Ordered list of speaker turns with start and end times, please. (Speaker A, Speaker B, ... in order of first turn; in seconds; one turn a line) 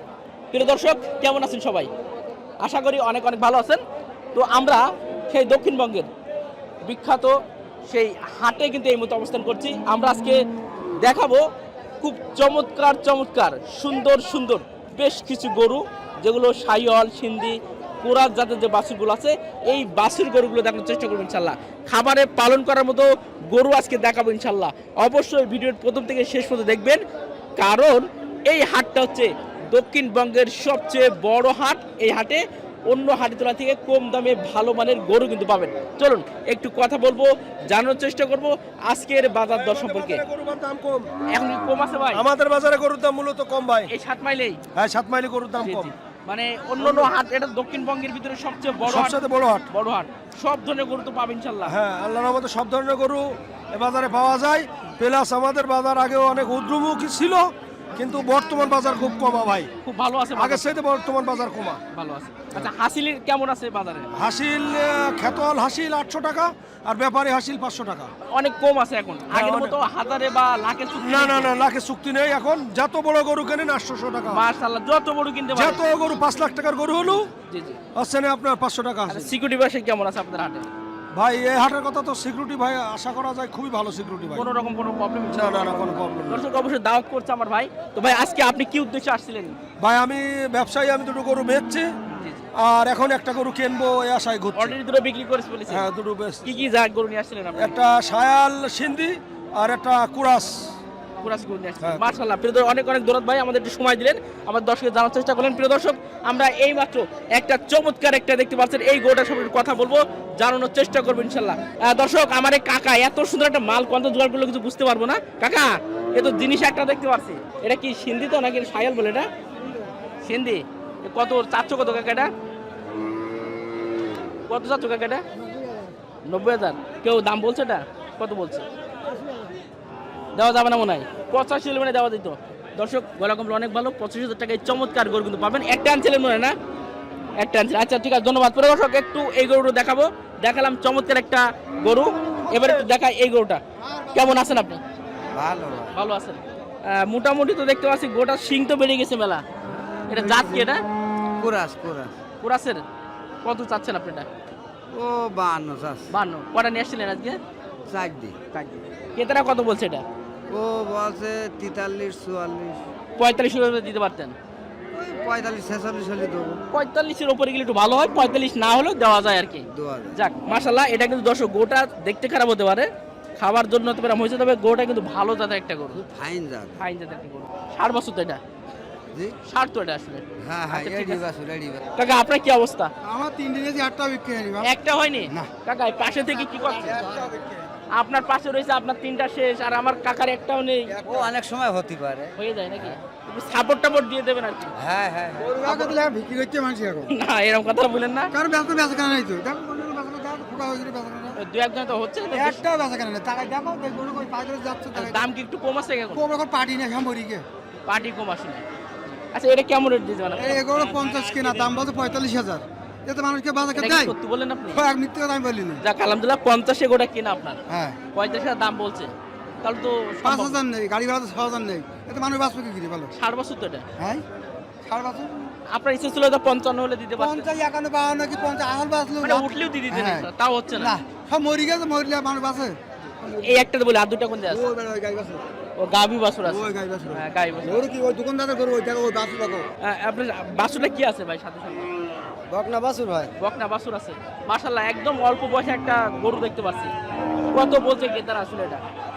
Speaker A: 0.5-1.9
Speaker A: 2.6-3.8
Speaker A: 4.3-6.1
Speaker A: 6.8-7.3
Speaker A: 7.9-10.4
Speaker A: 11.0-11.4
Speaker A: 12.0-27.0
Speaker A: 27.6-40.2
Speaker B: 39.5-41.1
Speaker A: 41.3-42.2
Speaker B: 42.1-43.9
Speaker A: 43.9-44.6
Speaker B: 44.7-45.9
Speaker A: 45.6-49.2
Speaker B: 46.8-47.1
Speaker B: 48.8-49.7
Speaker A: 49.7-51.7
Speaker B: 51.7-59.7
Speaker A: 59.8-60.7
Speaker B: 60.3-61.8
Speaker A: 61.9-64.1
Speaker B: 64.2-68.1
Speaker A: 68.3-71.5
Speaker B: 69.3-69.8
Speaker B: 71.0-74.4
Speaker A: 74.3-75.8
Speaker B: 75.5-77.2
Speaker A: 77.5-77.8
Speaker B: 78.0-79.3
Speaker A: 79.1-80.7
Speaker B: 81.2-84.4
Speaker A: 84.3-89.5
Speaker B: 85.3-86.5
Speaker B: 89.8-91.8
Speaker A: 92.1-92.5
Speaker B: 92.6-94.8
Speaker A: 94.5-95.9
Speaker B: 95.7-96.5
Speaker A: 96.5-97.7
Speaker B: 97.5-100.7
Speaker A: 101.2-119.3
Speaker B: 101.8-102.1
Speaker A: 120.2-122.3
Speaker A: 124.5-125.2
Speaker A: 126.3-128.7
Speaker A: 130.3-136.5
Speaker A: 137.4-143.6
Speaker A: 144.1-144.8
Speaker C: 145.6-145.8
Speaker A: 145.9-149.4
Speaker A: 150.1-150.8
Speaker C: 151.4-152.1
Speaker A: 152.4-152.8
Speaker A: 153.4-154.3
Speaker C: 154.9-156.0
Speaker A: 156.1-157.4
Speaker C: 157.9-158.3
Speaker A: 158.6-160.0
Speaker C: 160.5-162.8
Speaker A: 163.2-164.3
Speaker C: 164.9-166.6
Speaker A: 166.7-169.6
Speaker C: 169.7-170.1
Speaker A: 170.1-176.0
Speaker C: 175.9-176.8
Speaker A: 176.8-178.4
Speaker A: 179.5-181.2
Speaker C: 180.4-181.8
Speaker A: 182.0-182.9
Speaker D: 183.1-184.6
Speaker A: 184.6-187.0
Speaker A: 187.9-190.9
Speaker D: 191.0-191.3
Speaker A: 192.4-194.7
Speaker D: 195.4-197.1
Speaker A: 195.6-196.0
Speaker A: 197.1-198.3
Speaker D: 198.3-201.3
Speaker A: 201.4-202.6
Speaker D: 202.3-205.2
Speaker A: 204.9-206.2
Speaker D: 206.1-207.4
Speaker A: 207.9-208.6
Speaker A: 209.3-210.7
Speaker D: 210.4-214.1
Speaker A: 213.7-214.8
Speaker D: 214.7-215.8
Speaker A: 215.8-217.6
Speaker D: 217.7-218.0
Speaker A: 218.1-219.1
Speaker A: 219.6-220.6
Speaker D: 220.2-223.1
Speaker A: 223.2-223.8
Speaker D: 224.8-225.3
Speaker A: 225.7-227.5
Speaker D: 227.2-230.2
Speaker A: 229.2-230.9
Speaker D: 230.8-233.4
Speaker A: 233.4-234.7
Speaker D: 234.5-235.4
Speaker A: 235.8-237.9
Speaker D: 236.4-239.6
Speaker A: 239.8-241.9
Speaker A: 243.4-246.9
Speaker A: 247.5-248.8